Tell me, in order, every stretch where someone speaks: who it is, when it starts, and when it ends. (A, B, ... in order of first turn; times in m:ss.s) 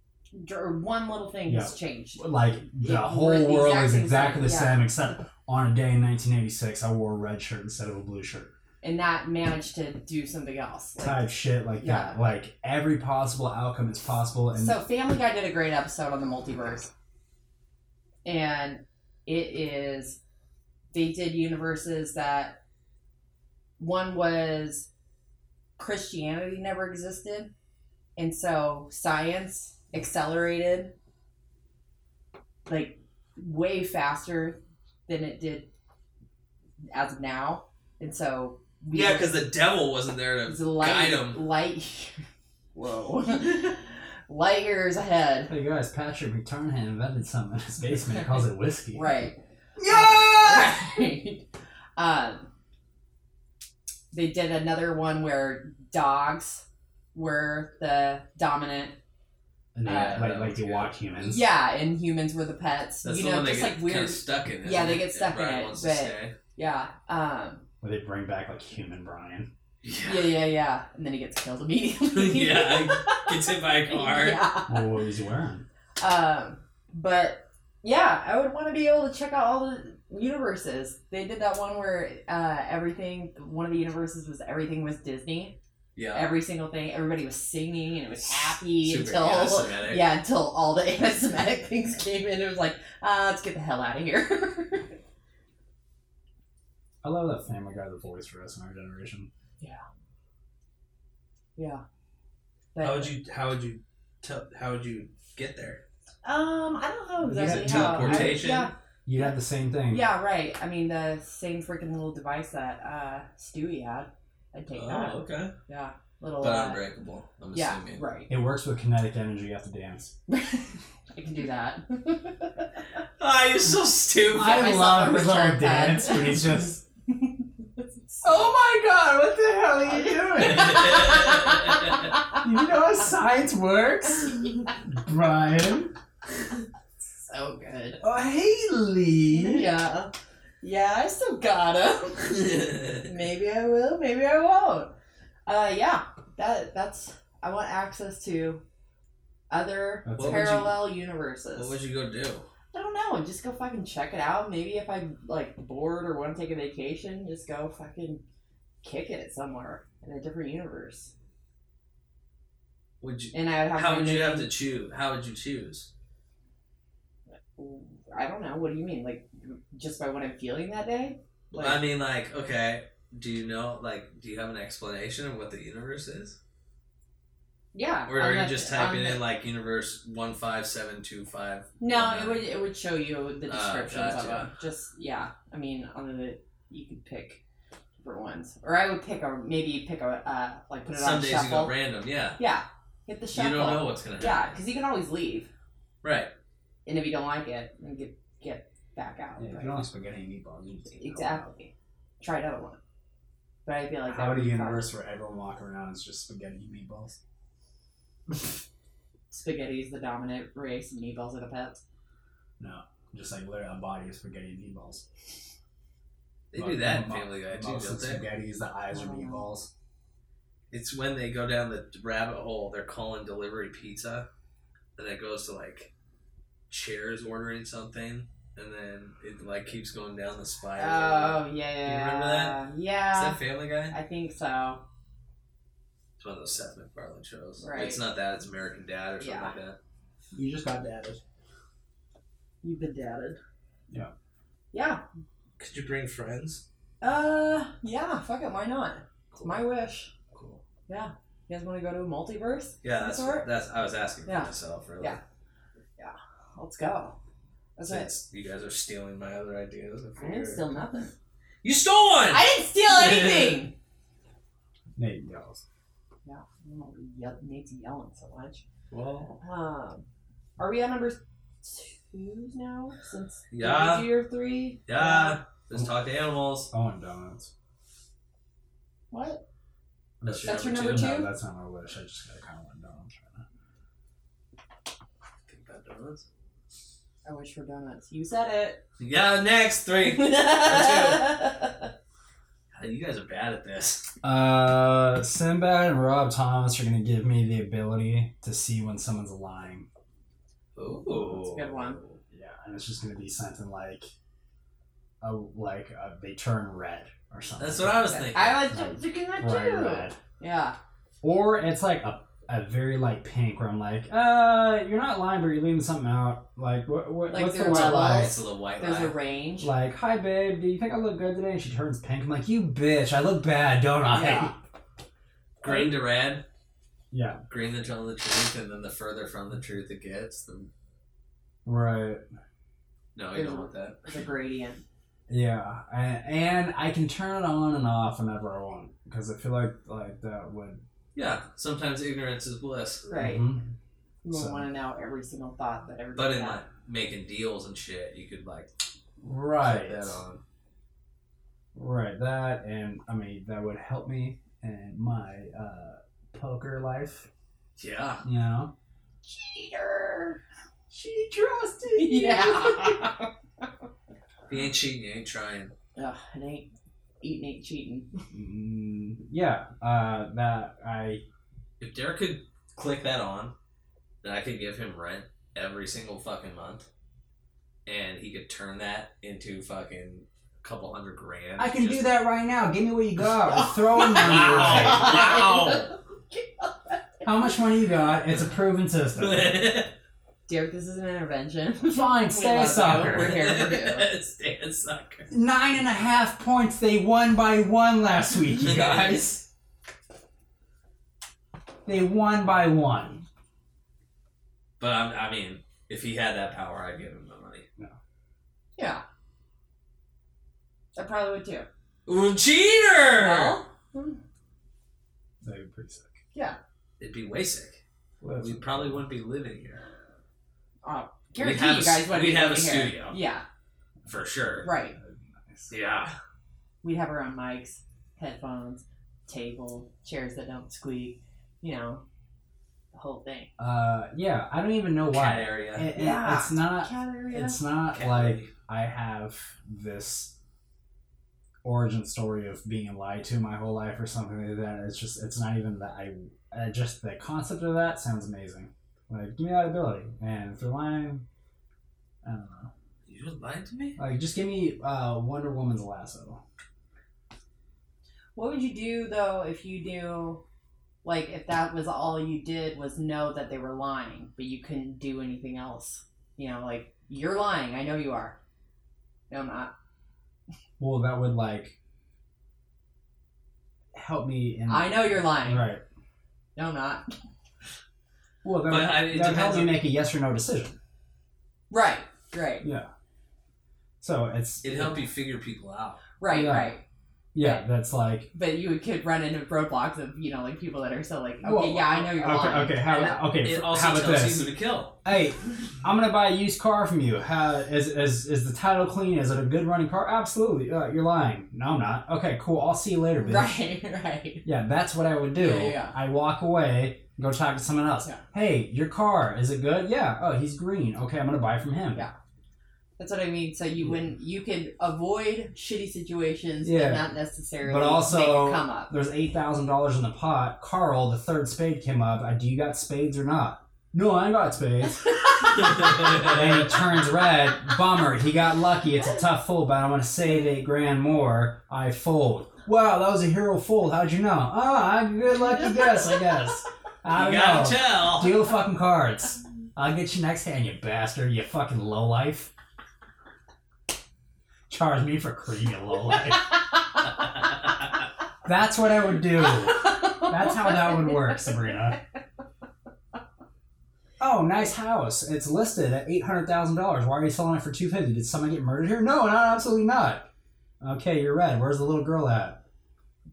0:00.3-0:02.2 A
0:01.5-0:08.5 B
0:02.8-0:04.9 A
0:08.8-0:12.2 A
0:11.0-0:14.8 B
0:14.5-0:16.9 A
0:18.2-0:20.2 A
0:20.9-0:22.6 A
0:23.8-0:24.9 A
0:25.8-0:27.5 A
0:28.2-0:30.9 A
0:32.6-0:35.7 A
0:36.9-0:39.3 A
0:38.9-0:41.4 C
0:40.4-0:42.2 A
0:42.7-0:45.5 A
0:45.5-0:49.1 B
0:48.9-0:52.4 A
0:49.8-0:50.8 B
0:54.1-0:59.0 A
0:59.7-1:01.4 B
0:59.8-1:00.2 A
0:59.8-1:01.0 C
1:01.2-1:07.6 A
1:03.0-1:06.3 C
1:07.8-1:09.5 B
1:09.8-1:10.4 C
1:10.0-1:14.8 A
1:12.1-1:14.4 C
1:14.7-1:15.6 B
1:16.0-1:25.6 A
1:26.0-1:26.2 C
1:26.1-1:35.0 A
1:28.4-1:30.0 C
1:37.0-1:39.3 B
1:41.6-1:41.8 A
1:42.7-1:43.1 A
1:42.8-1:45.8 C
1:46.2-1:48.7 A
1:47.2-1:48.5 B
1:47.4-1:48.7 C
1:49.0-1:50.1 B
1:49.9-1:56.8 A
1:54.7-1:55.5 C
1:56.4-1:58.0 C
1:57.5-1:58.3 A
1:58.3-2:00.1 B
2:00.3-2:02.7 A
2:03.2-2:04.6 C
2:04.3-2:06.8 B
2:04.4-2:08.4 A
2:08.2-2:11.1 B
2:09.8-2:12.4 A
2:10.4-2:12.0 C
2:12.3-2:15.9 B
2:17.0-2:18.0 A
2:18.0-2:19.7 B
2:19.3-2:24.9 A
2:22.5-2:23.0 C
2:25.5-2:28.6 A
2:29.5-2:31.8 A
2:30.0-2:30.6 B
2:30.2-2:30.8 C
2:31.6-2:32.4 C
2:32.7-2:38.2 A
2:38.8-2:41.1 A
2:43.0-2:45.9 C
2:43.3-2:44.5 A
2:47.6-2:51.8 A
2:51.5-2:56.4 C
2:57.7-2:59.2 A
2:58.1-3:02.4 C
3:01.8-3:07.4 A
3:03.5-3:04.5 C
3:08.0-3:11.7 A
3:10.9-3:12.4 C
3:12.4-3:15.5 A
3:13.3-3:14.5 C
3:16.0-3:16.3 C
3:16.8-3:19.8 A
3:19.4-3:21.5 B
3:21.0-3:22.8 A
3:23.6-3:24.9 A
3:24.1-3:27.2 B
3:29.3-3:31.8 A
3:32.6-3:35.0 B
3:36.5-3:38.2 C
3:36.5-3:39.7 B
3:38.9-3:39.4 A
3:40.7-3:44.3 C
3:45.0-3:45.9 C
3:46.7-3:52.6 C
3:50.8-3:54.8 A
3:53.1-3:53.9 C
3:56.2-3:59.8 C
3:57.6-3:58.0 A
3:59.2-3:59.5 A
4:00.3-4:01.2 B
4:02.6-4:03.4 A
4:04.7-4:05.0 A
4:05.6-4:06.6 C
4:07.0-4:10.1 A
4:10.3-4:10.6 C
4:10.9-4:13.5 A
4:12.8-4:15.2 C
4:14.2-4:15.2 A
4:16.0-4:17.2 A
4:17.8-4:18.1 A
4:17.9-4:20.7 C
4:20.2-4:21.1 A
4:21.6-4:23.6 C
4:22.3-4:23.7 A
4:25.0-4:25.6 B
4:26.2-4:28.6 A
4:28.9-4:29.4 C
4:29.4-4:30.0 A
4:30.6-4:35.4 A
4:33.5-4:34.1 C
4:34.9-4:36.7 C
4:36.7-4:37.5 B
4:39.1-4:39.4 A
4:40.2-4:43.4 B
4:40.2-4:41.1 C
4:40.4-4:41.3 A
4:45.5-4:46.2 C
4:47.2-4:48.8 A
4:49.0-4:51.4 C
4:50.0-4:51.8 A
4:52.7-4:54.1 C
4:54.2-4:59.9 B
5:00.8-5:02.2 C
5:01.2-5:02.0 A
5:02.3-5:04.1 B
5:05.2-5:10.2 B
5:07.6-5:08.7 C
5:08.1-5:10.8 A
5:11.2-5:18.4 B
5:17.3-5:19.7 A
5:17.7-5:19.1 C
5:19.6-5:24.5 B
5:24.1-5:24.5 A
5:25.6-5:26.4 C
5:27.1-5:27.4 B
5:27.5-5:30.7 C
5:31.6-5:32.2 B
5:33.1-5:34.2 C
5:33.3-5:34.8 A
5:35.3-5:40.8 B
5:41.1-5:43.0 C
5:43.0-5:43.4 A
5:43.1-5:43.7 B
5:44.2-5:46.6 A
5:44.3-5:44.6 B
5:46.2-5:48.7 C
5:49.2-5:50.2 B
5:49.6-5:50.4 C
5:51.7-5:57.3 B
5:57.8-5:58.2 C
5:58.2-5:58.7 B
5:59.2-6:00.4 A
6:00.9-6:03.1 B
6:01.9-6:03.2 A
6:04.5-6:05.7 C
6:06.0-6:06.7 A
6:07.2-6:08.1 A
6:08.3-6:11.2 B
6:11.8-6:13.5 C
6:14.2-6:16.9 C
6:17.8-6:22.0 C
6:21.6-6:25.2 B
6:23.5-6:27.0 A
6:24.0-6:25.9 C
6:27.2-6:29.6 B
6:29.2-6:29.9 C
6:30.5-6:34.1 A
6:31.9-6:33.4 B
6:32.9-6:35.3 C
6:35.3-6:39.4 B
6:38.6-6:39.2 C
6:41.8-6:43.2 B
6:44.8-6:47.6 C
6:48.8-6:49.0 A
6:50.9-6:51.7 A
6:52.0-6:53.6 C
6:53.1-6:54.2 A
6:55.4-6:56.2 B
6:57.0-6:57.8 C
6:58.2-6:59.0 B
6:58.4-6:59.8 C
7:00.8-7:03.4 A
7:01.4-7:03.1 C
7:04.1-7:04.7 C
7:04.6-7:05.0 A
7:05.0-7:05.7 B
7:05.7-7:06.1 C
7:06.8-7:12.0 A
7:12.9-7:13.5 A
7:13.6-7:20.3 B
7:15.1-7:15.8 C
7:15.9-7:17.6 A
7:17.9-7:18.5 C
7:21.6-7:31.2 B
7:32.2-7:32.7 B
7:33.1-7:34.0 C
7:34.0-7:36.4 B
7:38.3-7:40.4 A
7:41.0-7:48.4 A
7:49.3-7:49.7 A
7:50.8-7:51.8 B
7:53.9-7:55.8 B
7:54.7-7:55.7 A
7:56.6-7:57.0 A
7:58.4-8:00.8 B
7:58.7-7:59.8 C
8:01.7-8:02.6 A
8:02.6-8:02.9 B
8:04.0-8:05.0 B
8:04.6-8:06.0 C
8:06.2-8:06.8 A
8:06.3-8:06.7 B
8:07.3-8:08.3 B
8:07.4-8:07.6 A
8:08.3-8:13.2 A
8:11.4-8:14.5 B
8:13.1-8:15.0 C
8:15.0-8:23.6 B
8:23.2-8:24.4 A
8:24.4-8:32.0 B
8:25.3-8:26.0 A
8:33.0-8:38.9 A
8:33.8-8:34.0 B
8:36.6-8:37.1 B
8:37.6-9:02.5 B
8:45.7-8:46.4 C
8:45.7-8:45.9 A
8:57.1-8:58.4 C
9:04.7-9:06.5 B
9:08.4-9:12.0 B
9:09.7-9:11.3 A
9:14.2-9:20.3 B
9:20.8-9:22.6 B